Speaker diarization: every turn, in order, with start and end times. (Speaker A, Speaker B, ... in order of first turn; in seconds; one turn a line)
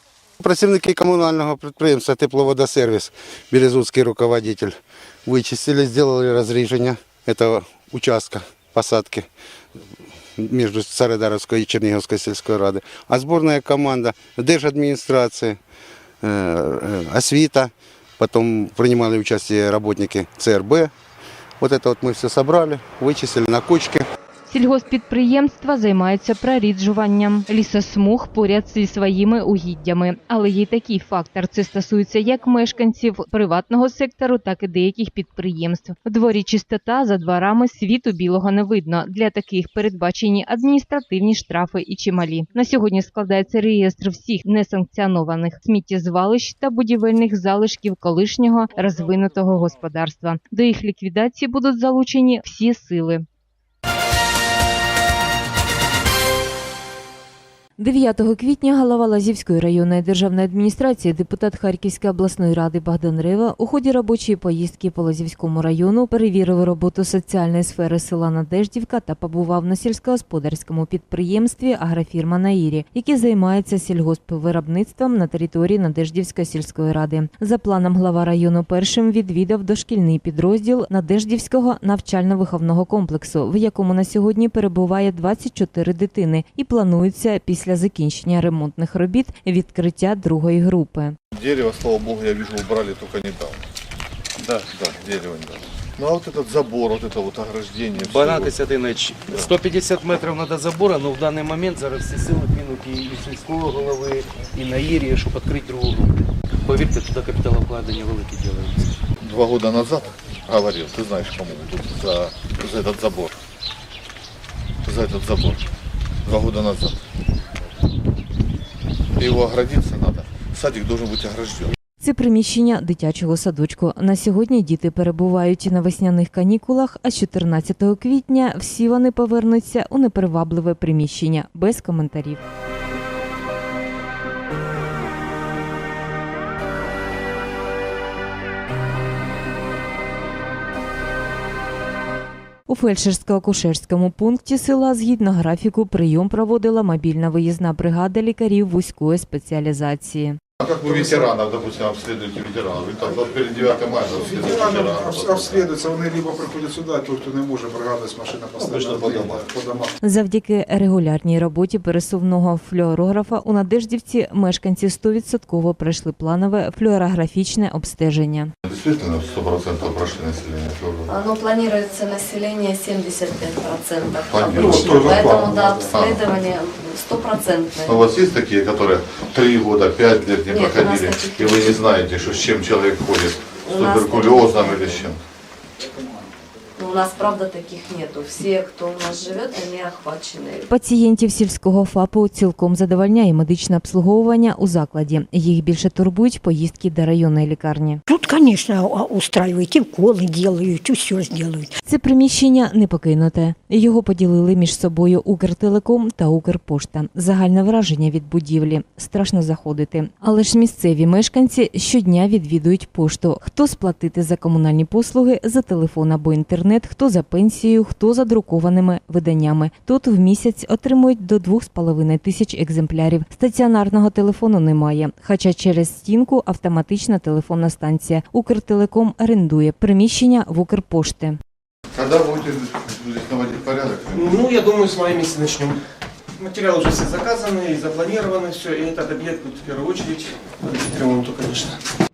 Speaker A: 0.4-4.7
Speaker A: 5.3-9.2
Speaker A: 10.4-15.6
Speaker A: 16.2-20.9
Speaker A: 21.6-24.0
Speaker B: 24.5-53.2
Speaker B: 57.8-91.2
Speaker C: 91.3-93.6
Speaker C: 94.6-98.6
Speaker D: 98.0-109.0
Speaker C: 109.2-113.4
Speaker C: 114.8-115.6
Speaker C: 116.2-117.0
Speaker C: 119.2-121.8
Speaker B: 122.0-132.4
Speaker B: 142.7-150.4
Speaker C: 150.6-155.8
Speaker E: 150.9-151.2
Speaker E: 154.2-159.9
Speaker C: 158.6-159.5
Speaker B: 160.0-168.5
Speaker C: 168.6-171.1
Speaker F: 171.1-178.0
Speaker C: 174.2-176.3
Speaker E: 174.9-175.8
Speaker C: 177.8-185.2
Speaker F: 180.5-181.8
Speaker F: 183.6-185.0
Speaker F: 186.8-190.7
Speaker B: 190.7-198.0
Speaker G: 198.1-201.7
Speaker B: 201.8-231.4
Speaker C: 231.9-234.3
Speaker H: 234.1-235.8
Speaker H: 236.4-241.8